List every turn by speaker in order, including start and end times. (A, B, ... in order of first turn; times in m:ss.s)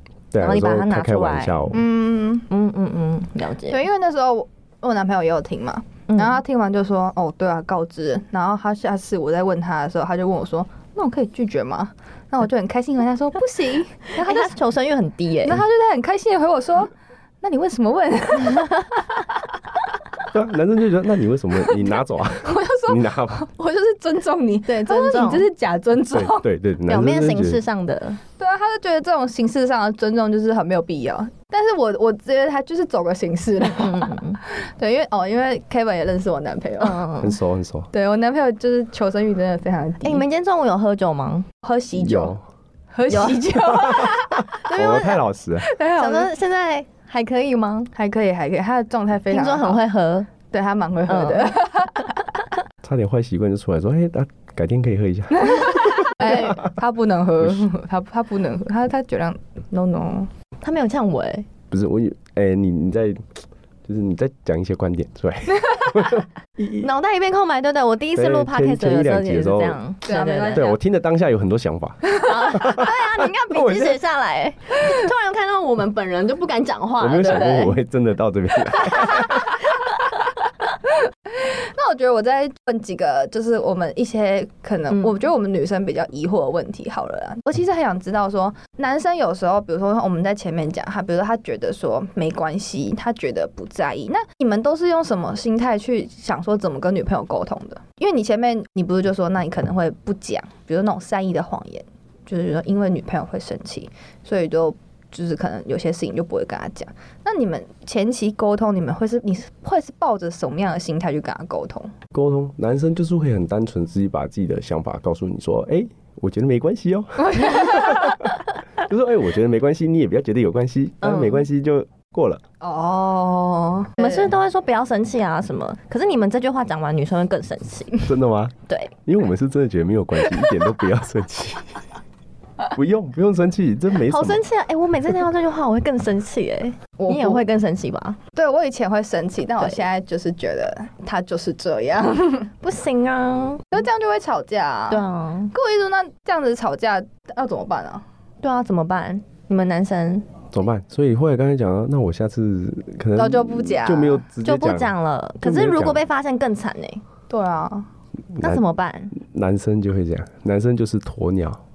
0:00.3-0:01.8 A
0:00.4-0:01.6 B
0:01.7-0:02.5 C
0:02.5-0:03.8 B
0:03.7-0:14.6 C
0:06.1-0:06.4 B
0:14.1-0:15.6 B
0:15.4-0:18.9 C
0:18.5-0:18.8 B
0:20.3-0:23.4 A
0:21.7-0:26.5 C
0:24.7-0:25.5 B
0:26.1-0:27.6 A
0:26.9-0:28.2 B
0:28.4-0:37.0 C
0:33.8-0:34.4 B
0:36.8-0:37.4 B
0:37.2-0:37.9 A
0:37.9-0:40.2 C
0:40.0-0:41.5 B
0:41.6-0:42.4 C
0:42.0-0:42.4 A
0:42.9-0:45.1 C
0:43.1-0:43.5 B
0:43.6-0:45.7 A
0:44.7-0:45.2 B
0:45.6-0:46.3 C
0:45.9-0:47.9 B
0:48.0-0:49.8 C
0:49.3-0:50.3 B
0:50.5-0:52.2 C
0:51.1-0:51.6 B
0:52.8-0:56.7 A
0:55.3-1:00.3 C
0:56.2-0:56.6 B
1:00.6-1:01.5 B
1:01.7-1:03.3 A
1:03.8-1:06.9 A
1:06.8-1:10.7 B
1:08.2-1:09.8 A
1:10.0-1:10.8 C
1:10.5-1:14.0 A
1:12.2-1:17.8 B
1:17.0-1:19.5 A
1:19.0-1:19.3 B
1:20.9-1:52.0 C
1:24.9-1:25.2 B
1:52.1-2:02.4 A
1:57.2-1:58.2 C
2:01.0-2:01.5 B
2:02.6-2:04.3 C
2:04.0-2:08.1 B
2:08.1-2:08.5 A
2:08.7-2:08.9 B
2:09.1-2:11.8 A
2:12.7-2:14.4 A
2:14.1-2:18.2 B
2:17.0-2:17.4 C
2:18.4-2:22.5 C
2:22.6-2:23.7 B
2:23.7-2:28.0 C
2:24.9-2:25.5 B
2:28.4-2:30.3 B
2:30.5-2:36.0 A
2:33.2-2:34.2 C
2:34.4-2:37.0 B
2:37.3-2:37.9 C
2:38.4-2:38.6 A
2:38.4-2:39.2 B
2:39.2-2:41.6 A